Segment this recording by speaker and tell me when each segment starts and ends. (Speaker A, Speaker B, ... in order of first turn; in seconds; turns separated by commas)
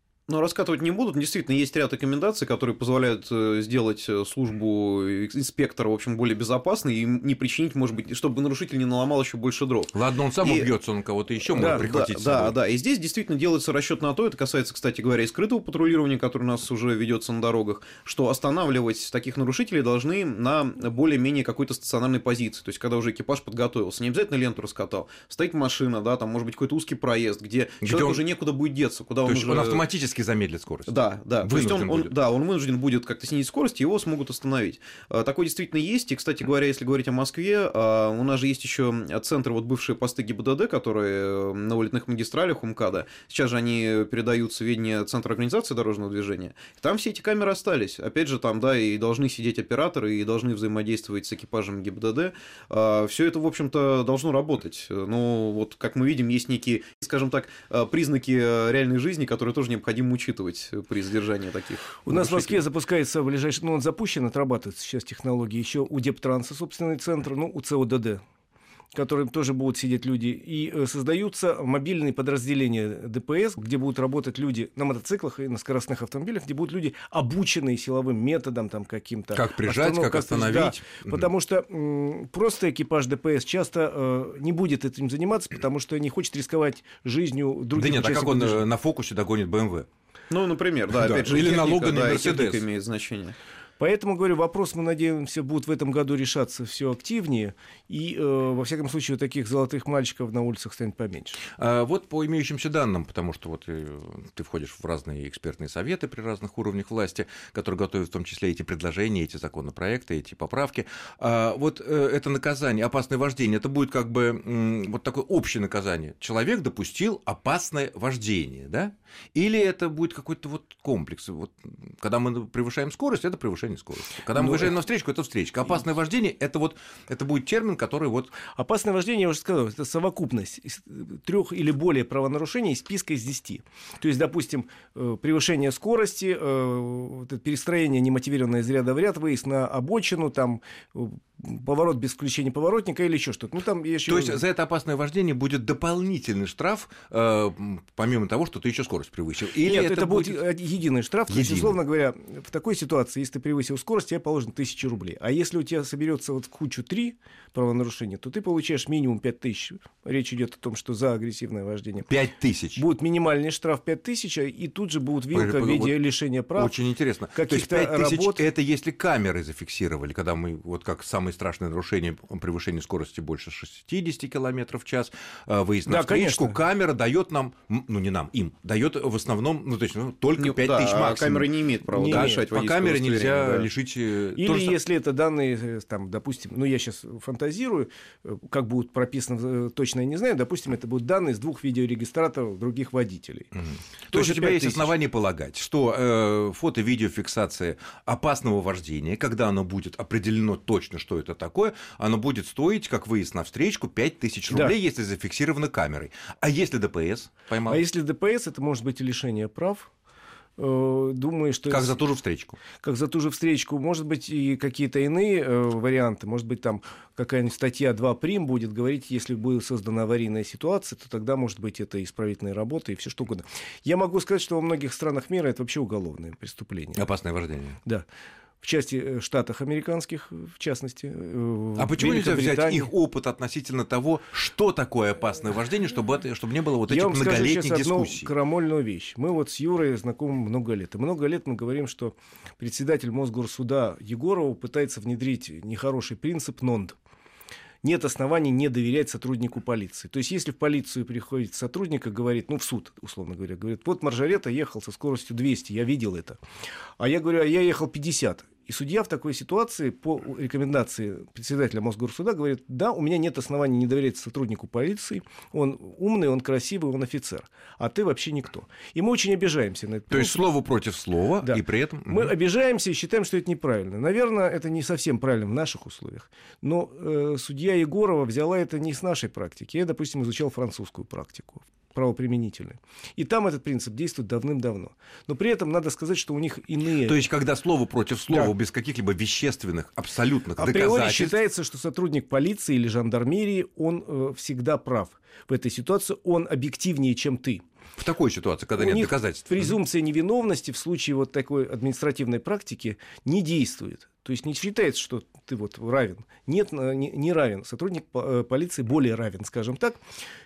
Speaker A: 0.3-10.7, Speaker B: 9.9-12.6, Speaker A: 11.5-29.9, Speaker C: 11.5-11.9, Speaker B: 27.8-28.2, Speaker B: 29.2-32.1, Speaker A: 30.9-62.6, Speaker C: 62.1-68.2, Speaker C: 68.9-88.7, Speaker B: 79.3-81.3, Speaker B: 87.7-89.9, Speaker A: 90.3-93.4, Speaker B: 90.9-92.6, Speaker C: 93.8-101.4, Speaker B: 101.6-128.3, Speaker C: 124.4-124.7, Speaker C: 128.5-144.4, Speaker B: 144.1-150.4, Speaker C: 149.6-162.1, Speaker B: 151.3-151.8, Speaker B: 162.1-162.8, Speaker C: 162.8-166.8, Speaker B: 165.3-166.0, Speaker B: 166.6-184.8, Speaker C: 167.3-168.4, Speaker C: 175.9-176.6, Speaker A: 180.4-183.7, Speaker C: 181.9-182.4, Speaker C: 184.3-193.5, Speaker B: 193.6-207.8, Speaker C: 194.1-194.9, Speaker C: 204.5-204.8, Speaker C: 207.7-209.9, Speaker C: 210.6-212.0, Speaker B: 211.7-212.6, Speaker C: 212.8-227.0, Speaker B: 227.0-227.8, Speaker C: 228.6-232.9, Speaker B: 231.8-238.3, Speaker C: 236.9-247.0, Speaker C: 247.8-256.4, Speaker C: 257.0-270.5, Speaker B: 270.1-272.3, Speaker C: 271.4-287.2, Speaker B: 287.0-291.4, Speaker C: 290.6-297.6, Speaker B: 298.0-299.8, Speaker C: 298.8-310.0